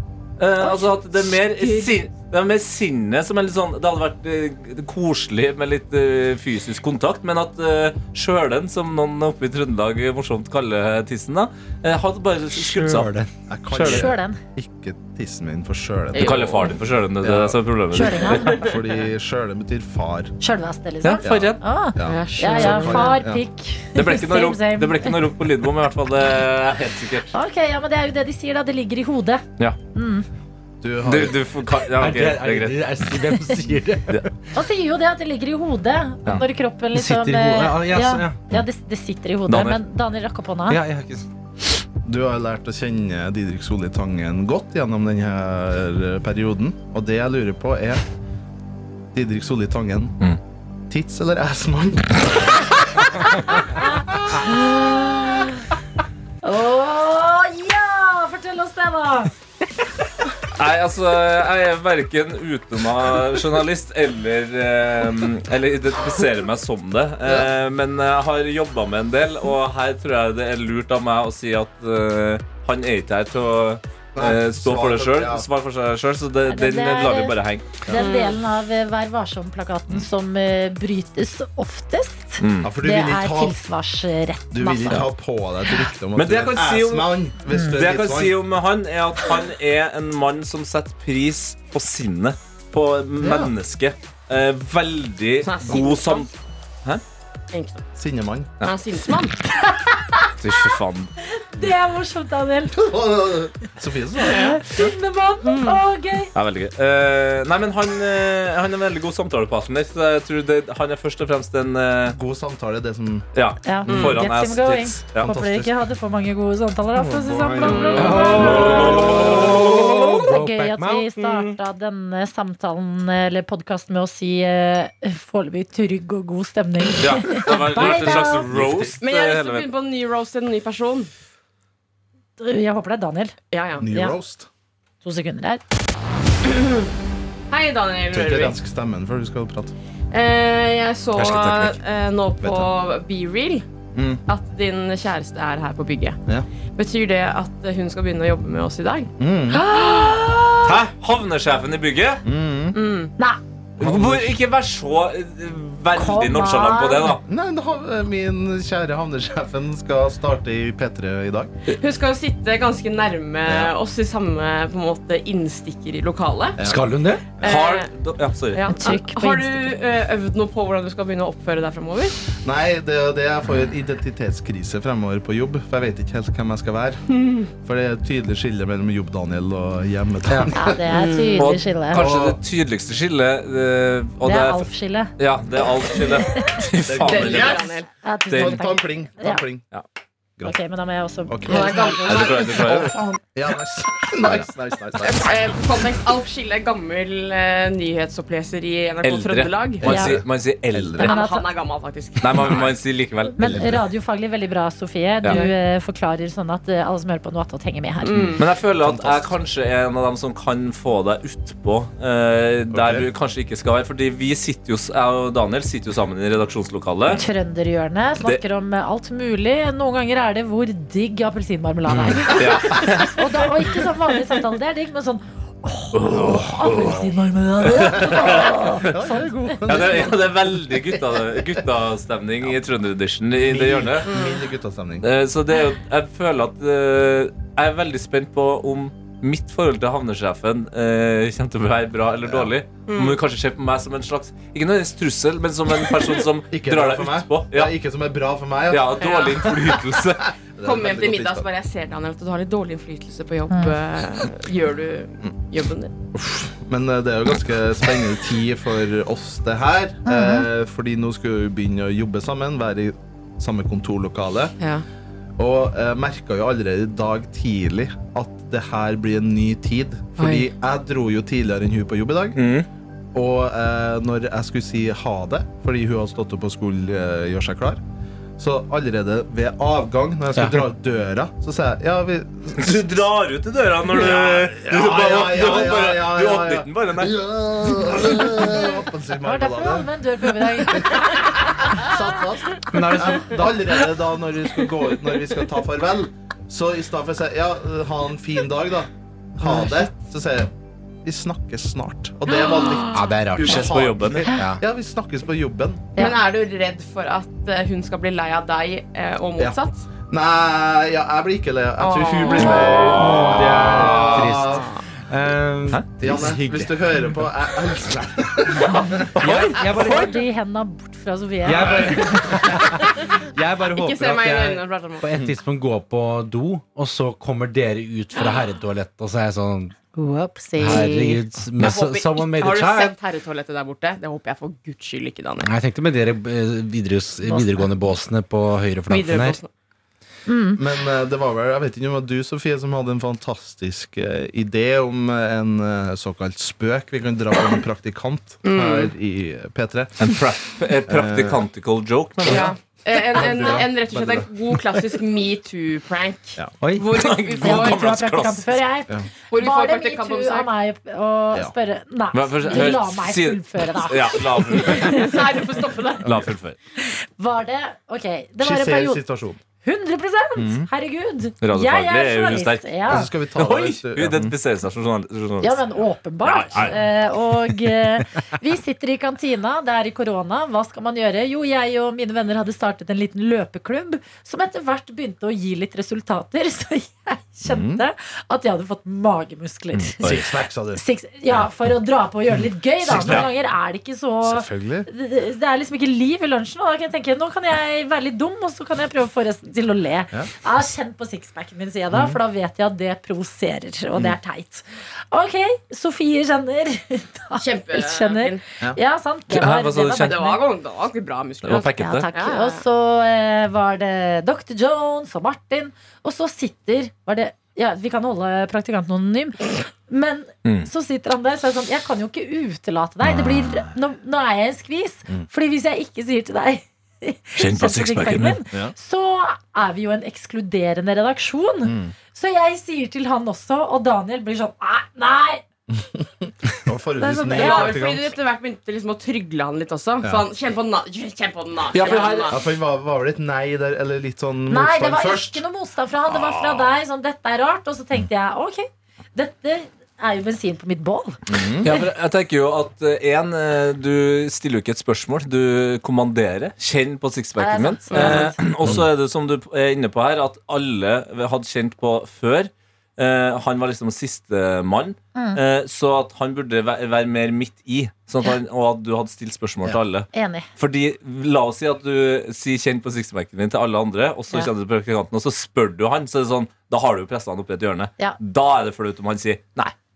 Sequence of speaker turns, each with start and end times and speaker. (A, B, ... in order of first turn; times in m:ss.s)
0:00.4-0:13.1 A
0:01.4-0:01.9 B
0:12.6-0:13.3 C
0:13.5-0:16.6 D
0:13.7-0:14.1 A
0:13.8-0:14.4 E
0:16.1-0:16.8 B
0:16.2-0:18.6 A
0:17.2-0:20.4 D
0:17.9-0:18.6 E
0:18.3-0:18.9 B
0:20.4-0:25.2 E
0:21.0-0:21.6 A
0:21.2-0:23.4 D
0:22.0-0:23.2 B
0:24.0-0:27.4 A
0:27.3-0:29.4 E
0:29.9-0:30.3 E
0:30.8-0:31.4 D
0:31.0-0:32.8 A
0:32.0-0:34.3 C
0:34.5-0:40.8 E
0:36.9-0:38.5 C
0:39.5-0:39.8 A
0:40.7-0:41.3 C
0:42.0-0:48.0 D
0:49.1-0:50.1 D
0:50.9-0:52.7 D
0:53.2-0:55.7 E
0:56.4-0:59.3 E
1:00.6-1:17.8 A
1:14.2-1:15.5 D
1:16.5-1:17.4 E
1:17.9-1:25.1 E
1:17.9-1:18.4 B
1:22.4-1:22.7 A
1:22.6-1:23.6 D
1:24.5-1:28.4 D
1:26.2-1:36.3 A
1:27.5-1:27.8 E
1:33.2-1:33.5 D
1:35.4-1:36.3 B
1:37.5-1:37.8 B
1:38.0-1:38.5 D
1:38.6-1:39.4 B
1:39.6-1:40.3 E
1:40.4-1:41.1 A
1:41.3-1:42.8 E
1:42.8-1:44.9 D
1:44.2-1:46.3 E
1:45.4-1:45.8 B
1:46.4-1:52.2 A
1:52.1-1:53.3 D
1:53.3-1:55.3 A
1:53.6-1:59.1 E
1:53.9-1:54.1 B
1:55.2-1:55.7 D
1:57.0-1:59.6 D
1:57.6-1:58.0 B
1:58.0-2:01.6 C
1:58.1-2:00.2 A
1:59.8-2:08.5 E
2:07.0-2:09.7 A
2:07.6-2:09.0 C
2:09.0-2:11.1 B
2:12.4-2:13.4 E
2:13.5-2:13.9 B
2:13.8-2:14.5 D
2:15.0-2:15.6 E
2:16.4-2:16.9 B
2:17.5-2:18.6 B
2:18.1-2:19.7 D
2:20.1-2:23.7 B
2:21.2-2:21.8 A
2:22.4-2:22.7 D
2:24.3-2:26.2 B
2:26.7-2:29.1 B
2:29.2-2:29.6 D
2:29.5-2:30.8 E
2:29.8-2:30.2 B
2:30.6-2:32.2 A
2:32.2-2:32.8 D
2:32.7-2:33.1 B
2:33.8-2:37.2 A
2:33.8-2:34.4 D
2:36.0-2:37.2 E
2:37.3-2:41.5 D
2:41.8-2:46.6 B
2:43.5-2:43.7 D
2:46.6-2:46.9 D
2:46.6-2:47.2 C
2:47.4-2:47.9 B
2:47.4-2:48.6 A
2:48.5-2:52.2 B
2:48.7-2:49.7 E
2:52.4-3:00.8 D
2:57.1-2:57.5 B
3:00.3-3:00.5 C
3:00.5-3:02.1 E
3:00.9-3:01.6 B
3:01.4-3:07.6 A
3:01.9-3:02.4 D
3:04.2-3:05.1 E
3:05.9-3:06.6 E
3:06.9-3:07.7 D
3:07.0-3:07.9 B
3:08.0-3:09.4 E
3:08.3-3:08.6 A
3:08.3-3:09.6 D
3:10.4-3:12.5 E
3:11.3-3:15.3 D
3:11.5-3:12.6 B
3:12.1-3:13.0 A
3:15.0-3:20.0 B
3:19.0-3:21.2 A
3:19.8-3:21.2 D
3:19.9-3:20.2 E
3:21.0-3:21.5 E
3:21.0-3:22.7 B
3:22.2-3:23.8 A
3:23.4-3:28.3 E
3:23.4-3:23.8 D
3:25.3-3:25.6 B
3:28.0-3:28.5 B
3:28.1-3:29.3 D
3:28.4-3:37.2 A
3:32.7-3:33.1 D
3:37.2-3:49.6 E
3:42.1-3:43.2 A
3:45.9-3:47.1 A
3:47.6-3:48.9 A
3:47.7-3:51.4 D
3:49.7-3:54.2 A
3:53.4-3:55.0 D
3:54.1-3:54.4 B
3:55.0-4:07.7 A
4:06.5-4:11.5 D
4:08.7-4:10.3 A
4:09.0-4:09.5 B
4:10.6-4:15.9 B
4:13.5-4:13.8 E
4:16.1-4:24.6 D
4:20.1-4:20.5 E
4:24.6-4:24.8 B
4:25.4-4:32.4 D
4:30.2-4:30.5 B
4:32.4-4:32.7 A
4:33.1-4:37.8 D
4:38.4-4:43.0 D
4:40.3-4:40.7 C
4:42.6-4:47.2 A
4:43.9-4:49.9 D
4:49.2-4:51.9 E
4:50.6-5:00.5 D
4:52.7-4:53.6 C
5:01.0-5:06.0 D
5:02.9-5:04.6 C
5:03.4-5:04.3 A
5:06.0-5:09.9 B
5:09.4-5:14.7 D
5:11.8-5:12.9 B
5:12.4-5:14.3 A
5:12.9-5:17.3 C
5:14.4-5:14.8 B
5:16.0-5:19.1 D
5:18.7-5:22.3 E
5:19.2-5:20.2 C
5:19.2-5:20.1 A
5:21.4-5:29.8 C
5:21.7-5:22.1 D
5:23.7-5:25.0 B
5:30.0-5:31.2 E
5:30.6-5:33.0 C
5:31.6-5:35.5 B
5:35.4-5:39.4 C
5:37.2-5:37.7 E
5:38.9-5:39.5 B
5:40.3-5:40.6 E
5:40.6-5:50.2 D
5:48.4-5:48.9 B
5:50.0-5:52.5 A
5:50.9-5:51.4 D
5:52.3-5:52.5 D
5:52.3-5:58.0 B
5:53.1-5:54.3 D
5:56.6-5:56.9 C
5:56.9-5:58.5 A
5:57.4-6:05.2 E
5:59.3-6:00.5 B
6:02.1-6:05.1 A
6:04.7-6:06.1 B
6:06.0-6:06.6 A
6:06.8-6:09.0 E
6:08.4-6:09.4 D
6:09.6-6:13.1 E
6:10.4-6:10.7 D
6:11.4-6:15.6 A
6:12.9-6:14.3 D
6:15.4-6:50.4 E
6:16.2-6:16.8 A
6:27.4-6:27.8 D
6:29.8-6:30.3 A
6:30.0-6:30.8 D
6:32.8-6:33.3 A
6:32.8-6:33.3 D
6:34.2-6:34.9 D
6:41.9-6:42.2 D
6:47.4-6:48.4 B
6:49.3-6:50.2 A
6:50.0-6:52.6 B
6:51.4-6:52.1 A
6:51.7-7:15.4 E
7:00.4-7:00.7 A
7:07.4-7:08.4 A
7:11.6-7:11.9 D
7:15.7-7:18.2 D
7:17.0-7:22.4 B
7:17.0-7:17.9 E
7:20.0-7:20.3 D
7:21.7-7:22.4 A
7:22.3-7:25.4 D
7:24.5-7:31.2 E
7:26.1-7:26.7 A
7:31.3-7:31.7 D
7:31.6-7:59.7 A
7:37.4-7:38.4 E
7:37.9-7:38.3 B
7:45.2-7:45.4 E
7:50.1-7:50.5 E